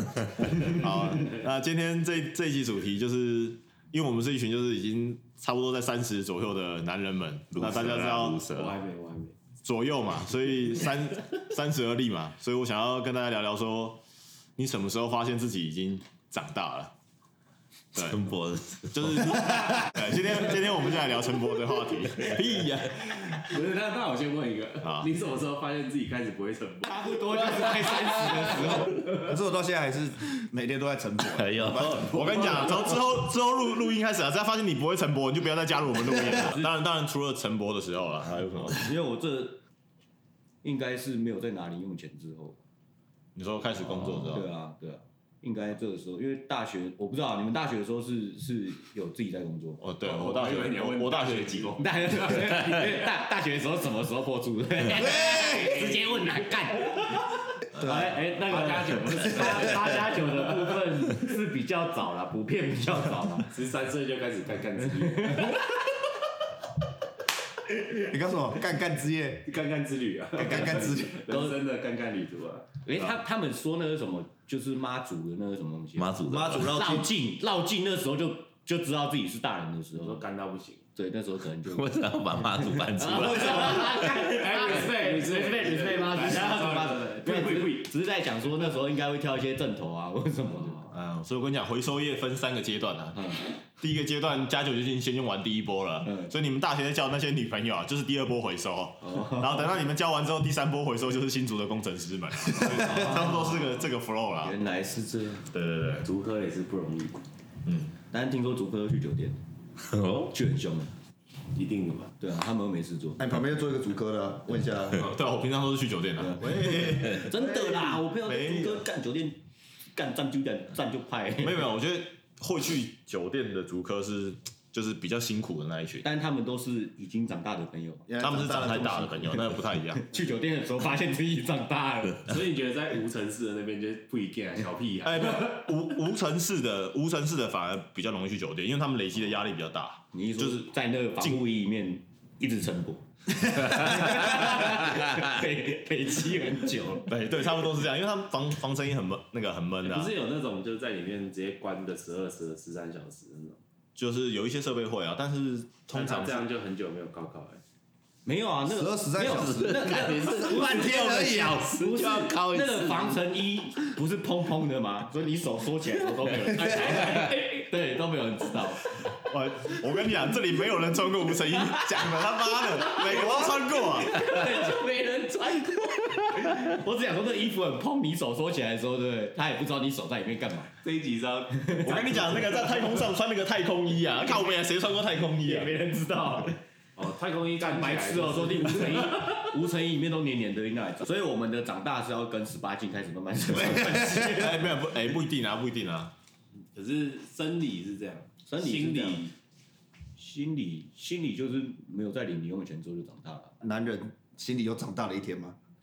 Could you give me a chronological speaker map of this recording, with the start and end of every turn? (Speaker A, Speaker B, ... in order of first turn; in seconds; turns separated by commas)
Speaker A: 0.4-1.3, Speaker B: 0.6-8.4, Speaker C: 7.5-8.8, Speaker A: 8.5-9.3, Speaker B: 9.6-14.0, Speaker B: 14.6-16.9, Speaker C: 17.9-19.4, Speaker B: 18.0-18.2, Speaker B: 18.9-23.2, Speaker A: 23.3-27.9, Speaker B: 24.8-25.1, Speaker D: 26.9-29.0, Speaker E: 29.1-32.3, Speaker C: 31.3-32.9, Speaker B: 32.0-38.9, Speaker D: 38.7-39.6, Speaker D: 40.6-42.6, Speaker B: 43.3-44.5, Speaker D: 43.9-49.8, Speaker B: 49.8-51.8, Speaker A: 50.0-52.6, Speaker D: 51.8-57.2, Speaker A: 55.1-56.5, Speaker D: 57.7-63.6, Speaker A: 58.3-60.6, Speaker A: 63.5-65.6, Speaker D: 65.0-65.6, Speaker E: 68.0-69.5, Speaker A: 69.5-72.7, Speaker E: 70.4-71.2, Speaker D: 70.4-71.6, Speaker D: 72.8-80.2, Speaker C: 76.0-76.8, Speaker E: 76.2-77.1, Speaker A: 80.0-80.8, Speaker D: 81.0-81.9, Speaker C: 81.6-83.9, Speaker D: 82.8-90.9, Speaker E: 83.4-83.8, Speaker A: 83.8-87.9, Speaker B: 90.9-104.6, Speaker D: 99.0-99.7, Speaker D: 102.6-103.7, Speaker D: 104.4-105.5, Speaker B: 105.5-106.1, Speaker A: 106.0-107.2, Speaker B: 107.7-107.9, Speaker D: 108.1-109.4, Speaker D: 110.3-110.9, Speaker A: 111.5-112.1, Speaker D: 112.2-113.2, Speaker E: 113.2-115.0, Speaker B: 114.9-117.5, Speaker D: 116.2-119.4, Speaker E: 117.7-117.9, Speaker B: 118.2-118.8, Speaker D: 119.9-121.7, Speaker B: 121.4-126.1, Speaker D: 126.0-128.1, Speaker E: 128.1-129.5, Speaker B: 128.2-130.0, Speaker D: 130.0-132.3, Speaker A: 132.3-135.6, Speaker B: 135.0-141.4, Speaker D: 140.1-147.1, Speaker B: 147.1-150.1, Speaker A: 149.8-153.6, Speaker B: 153.9-156.4, Speaker A: 155.9-157.6, Speaker D: 158.2-168.8, Speaker E: 158.7-161.8, Speaker C: 159.3-163.2, Speaker B: 169.2-174.2, Speaker D: 172.8-180.7, Speaker A: 180.8-183.0, Speaker D: 181.5-182.2, Speaker B: 181.8-185.7, Speaker D: 185.4-186.6, Speaker A: 186.9-189.4, Speaker D: 187.6-194.7, Speaker E: 193.5-194.3, Speaker B: 194.1-196.1, Speaker A: 196.7-199.3, Speaker D: 198.5-199.3, Speaker D: 200.2-203.5, Speaker E: 203.6-205.6